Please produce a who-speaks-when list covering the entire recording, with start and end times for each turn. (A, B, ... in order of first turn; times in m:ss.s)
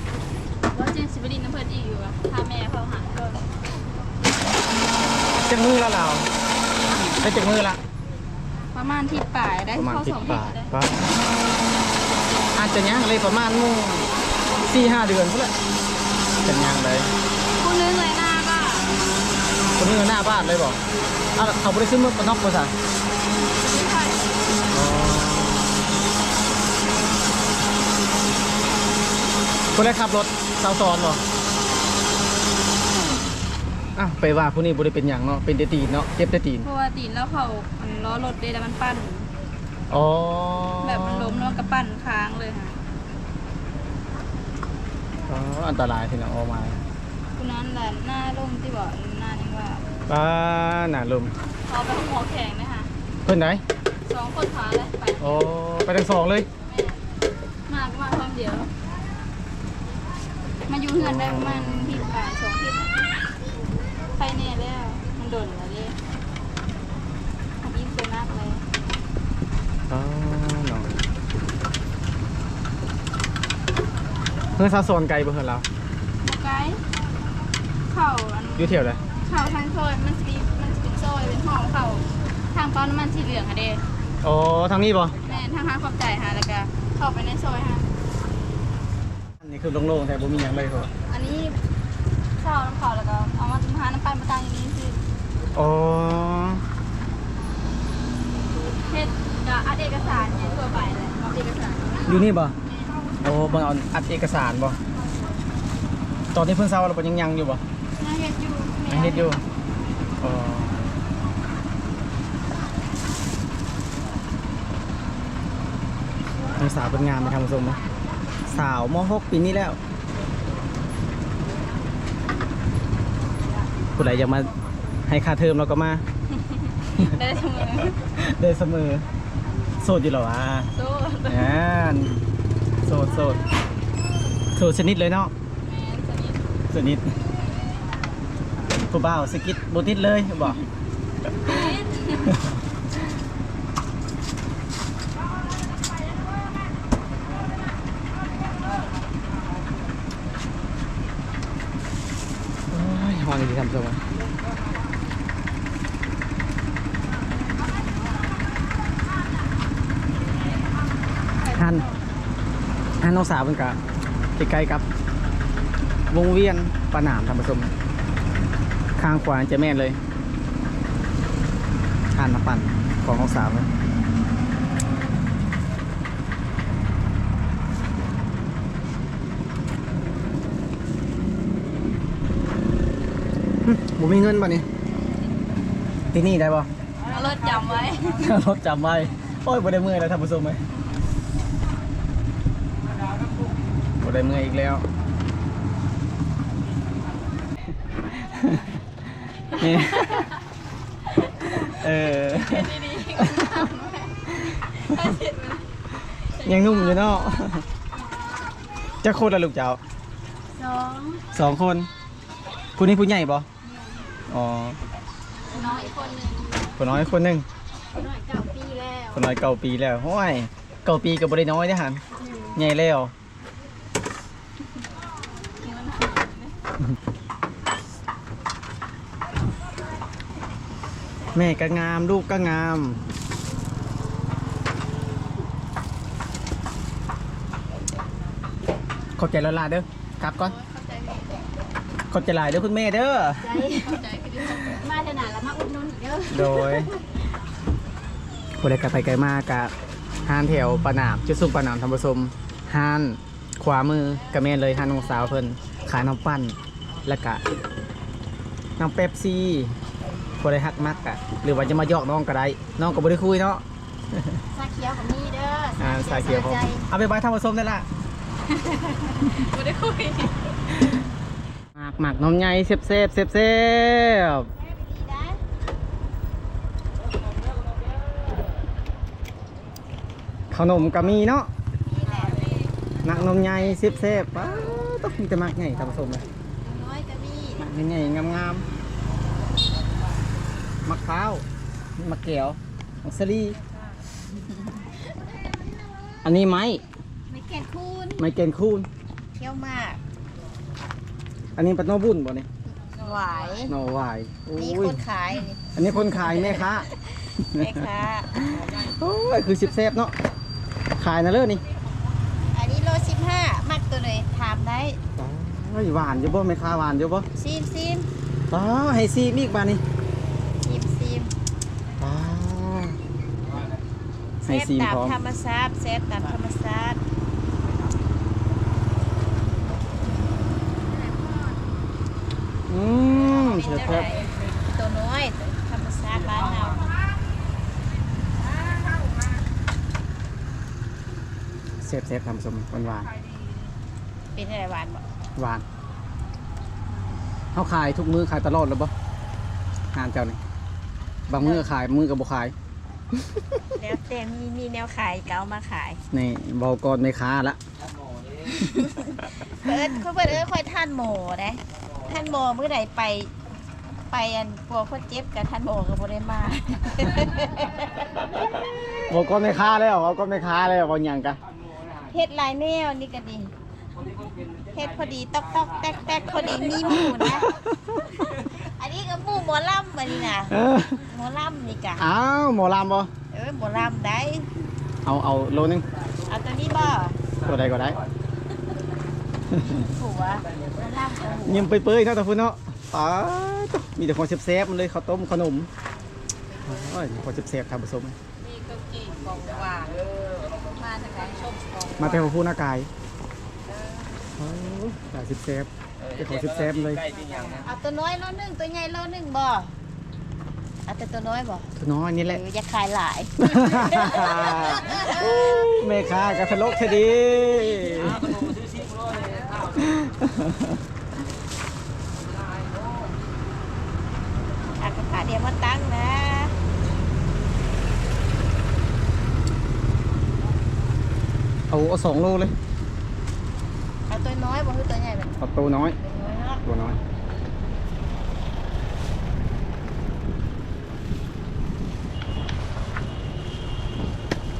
0:00.7-0:03.5 A
0:05.4-0:06.3 B
0:07.0-0:07.8 B
0:08.7-0:10.7 A
0:09.7-0:11.0 B
0:12.5-0:14.1 B
0:14.6-0:15.5 B
0:16.4-0:17.1 B
0:17.6-0:18.9 A
0:19.8-0:20.8 B
0:21.4-0:22.7 B
0:23.4-0:24.4 A
0:24.7-0:25.9 B
0:29.7-0:31.2 B
0:34.0-0:36.7 B
0:36.6-0:39.3 A
0:39.9-0:41.7 B
0:40.8-0:42.8 A
0:45.3-0:46.8 B
0:47.4-0:49.8 A
0:50.1-0:51.3 B
0:51.7-0:52.9 A
0:53.2-0:53.6 B
0:54.1-0:55.4 A
0:55.2-0:56.5 B
0:56.7-0:57.0 A
0:57.7-0:58.7 A
1:00.7-1:03.2 A
1:01.0-1:02.0 B
1:04.1-1:06.0 A
1:07.6-1:08.6 A
1:09.9-1:10.9 B
1:14.6-1:15.6 B
1:16.2-1:16.8 A
1:17.9-1:23.8 A
1:18.6-1:19.0 B
1:24.2-1:25.1 B
1:25.2-1:27.9 A
1:29.4-1:30.9 B
1:31.1-1:31.6 A
1:32.4-1:35.0 A
1:35.5-1:36.6 B
1:38.8-1:43.0 A
1:42.0-1:42.5 B
1:43.2-1:44.8 B
1:46.3-1:47.6 B
1:48.0-1:49.3 A
1:48.9-1:49.4 B
1:50.2-1:50.7 B
1:56.6-1:57.8 B
1:58.5-1:59.8 B
2:03.9-2:04.5 B
2:05.0-2:06.0 B
2:06.4-2:08.0 A
2:08.2-2:09.0 B
2:09.8-2:10.7 B
2:10.7-2:11.5 A
2:11.3-2:12.2 B
2:12.8-2:13.4 B
2:14.6-2:15.3 B
2:15.6-2:16.4 A
2:16.7-2:17.1 B
2:18.9-2:20.6 B
2:21.4-2:22.3 A
2:32.7-2:34.0 B
2:41.5-2:41.9 B
2:43.0-2:43.8 B
2:44.4-2:44.8 B
2:46.1-2:47.7 B
2:49.0-2:50.0 B
2:52.1-2:53.7 B
3:03.6-3:04.6 B
3:06.1-3:06.7 B
3:07.0-3:08.4 A
3:08.1-3:10.6 B
3:14.0-3:14.8 B
3:18.2-3:18.6 B
3:19.5-3:20.3 B
3:19.6-3:20.3 A
3:21.4-3:27.5 A
3:21.4-3:23.6 B
3:26.4-3:27.6 B
3:29.0-3:29.8 B
3:30.6-3:31.3 C
3:31.3-3:31.9 B
3:32.8-3:33.4 B
3:33.6-3:34.1 A
3:34.3-3:34.8 B
3:35.5-3:36.8 A
3:35.5-3:36.1 C
3:36.8-3:37.4 B
3:37.9-3:39.2 A
3:39.1-3:42.0 B
3:42.5-3:43.1 B
3:45.6-3:46.5 A
3:51.3-3:53.0 B
3:59.2-4:00.6 B
4:00.5-4:01.3 A
4:02.1-4:03.5 B
4:03.4-4:07.0 C
4:03.5-4:04.8 A
4:06.3-4:06.9 B
4:08.6-4:09.7 B
4:10.2-4:17.4 B
4:18.8-4:19.8 B
4:20.4-4:23.6 B
4:24.5-4:26.9 C
4:25.8-4:27.9 B
4:28.5-4:30.5 A
4:31.7-4:34.5 B
4:34.5-4:35.4 C
4:40.5-4:41.5 B
4:41.8-4:42.7 C
4:43.0-4:46.2 B
4:46.6-4:47.7 C
4:47.6-4:48.6 B
4:50.8-4:51.4 B
4:52.0-4:53.6 B
4:56.2-4:56.8 B
4:57.3-4:58.2 C
4:58.2-4:58.9 B
4:59.4-5:00.0 C
5:01.6-5:02.5 B
5:02.8-5:03.7 C
5:03.7-5:05.0 B
5:04.6-5:08.4 C
5:05.7-5:06.9 B
5:08.4-5:10.1 B
5:11.0-5:11.6 B
5:12.5-5:15.0 C
5:15.2-5:17.3 B
5:17.4-5:18.1 C
5:18.5-5:19.8 B
5:20.6-5:21.3 C
5:22.0-5:23.0 B
5:24.4-5:27.0 C
5:24.4-5:25.2 B
5:32.7-5:34.1 B
5:33.1-5:36.9 C
5:41.8-5:43.1 B
5:44.3-5:45.0 C
5:45.4-5:45.6 B
5:47.5-5:48.9 B
5:49.9-5:50.4 B
5:51.3-5:52.5 B
5:51.4-5:51.7 C
5:53.8-5:56.0 C
5:56.1-5:57.6 B
5:58.5-6:03.3 C
6:04.1-6:08.1 C
6:09.1-6:11.4 B
6:12.1-6:13.5 C
6:14.7-6:17.6 C
6:16.9-6:17.6 B
6:18.3-6:22.1 C
6:20.5-6:21.0 B
6:22.0-6:23.1 B
6:23.3-6:24.5 C
6:25.0-6:25.8 B
6:26.3-6:27.2 C
6:27.4-6:28.0 B
6:29.6-6:31.7 C
6:31.4-6:35.7 B
6:36.6-6:38.2 B
6:38.4-6:42.4 A
6:42.0-6:42.9 B
6:44.4-6:47.1 B
6:47.6-6:49.7 C
6:50.8-6:51.7 C
6:51.8-6:52.4 B
6:52.2-6:55.7 C
6:53.4-6:58.6 B
6:59.8-7:00.7 B
7:04.8-7:06.5 C
7:11.7-7:12.5 B
7:14.1-7:15.4 C
7:15.4-7:16.0 B
7:16.0-7:16.6 C
7:16.6-7:17.0 B